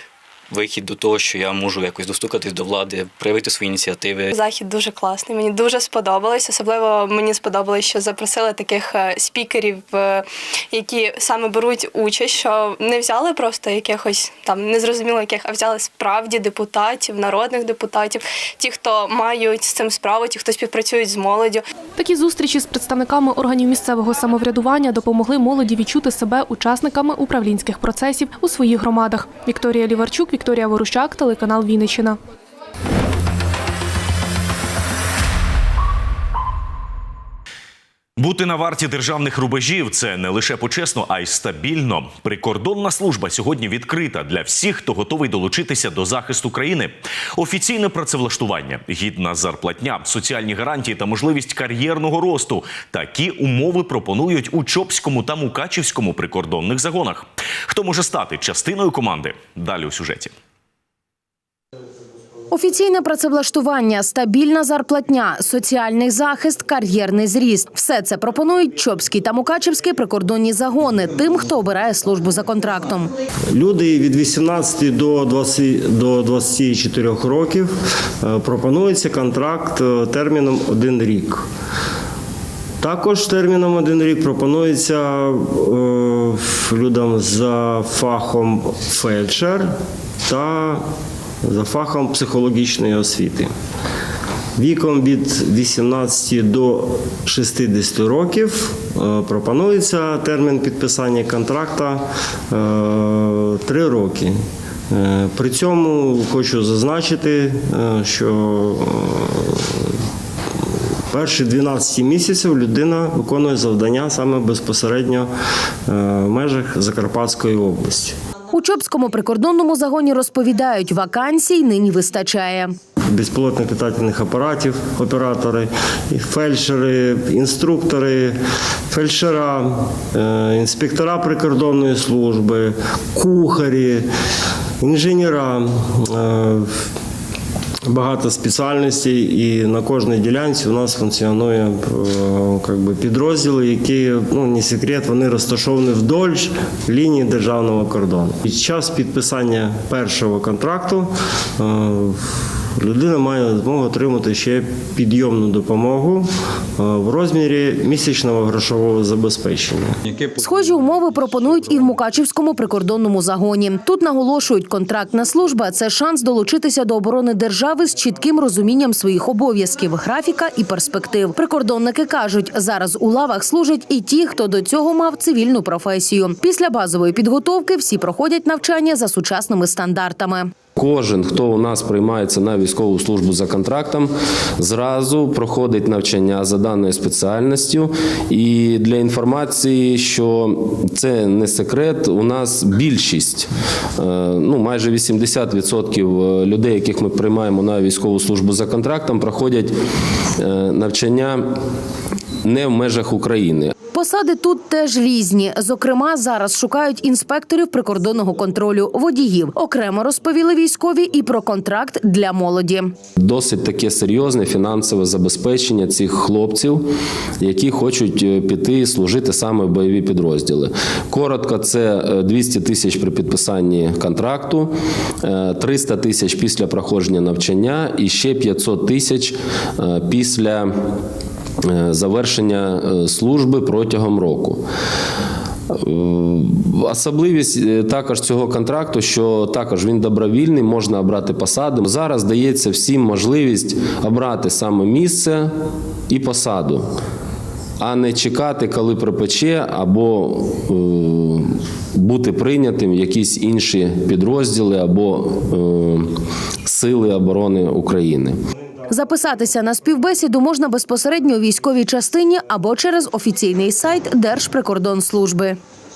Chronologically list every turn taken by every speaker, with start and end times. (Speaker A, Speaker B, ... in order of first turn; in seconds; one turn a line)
Speaker A: 0.5-4.3
Speaker B: 4.3-21.6
Speaker C: 22.0-32.2
Speaker D: 38.2-60.3
Speaker E: 62.5-73.1
Speaker F: 73.5-81.5
Speaker F: 82.8-89.7
Speaker F: 90.2-90.9
Speaker F: 91.4-93.5
Speaker F: 94.6-109.8
Speaker F: 111.1-115.3
Speaker F: 115.9-118.2
Speaker E: 118.5-122.7
Speaker F: 123.1-128.4
Speaker F: 128.9-134.1
Speaker F: 134.8-136.8
Speaker F: 137.8-160.0
Speaker E: 160.4-180.5
Speaker G: 180.8-199.8
Speaker G: 200.4-201.4
Speaker G: 202.4-203.7
Speaker E: 203.9-212.9
Speaker G: 213.2-216.9
Speaker G: 217.4-230.7
Speaker G: 231.6-234.6
Speaker G: 235.7-245.5
Speaker G: 246.1-246.9
Speaker G: 247.8-256.1
Speaker G: 256.6-258.4
Speaker E: 258.9-265.6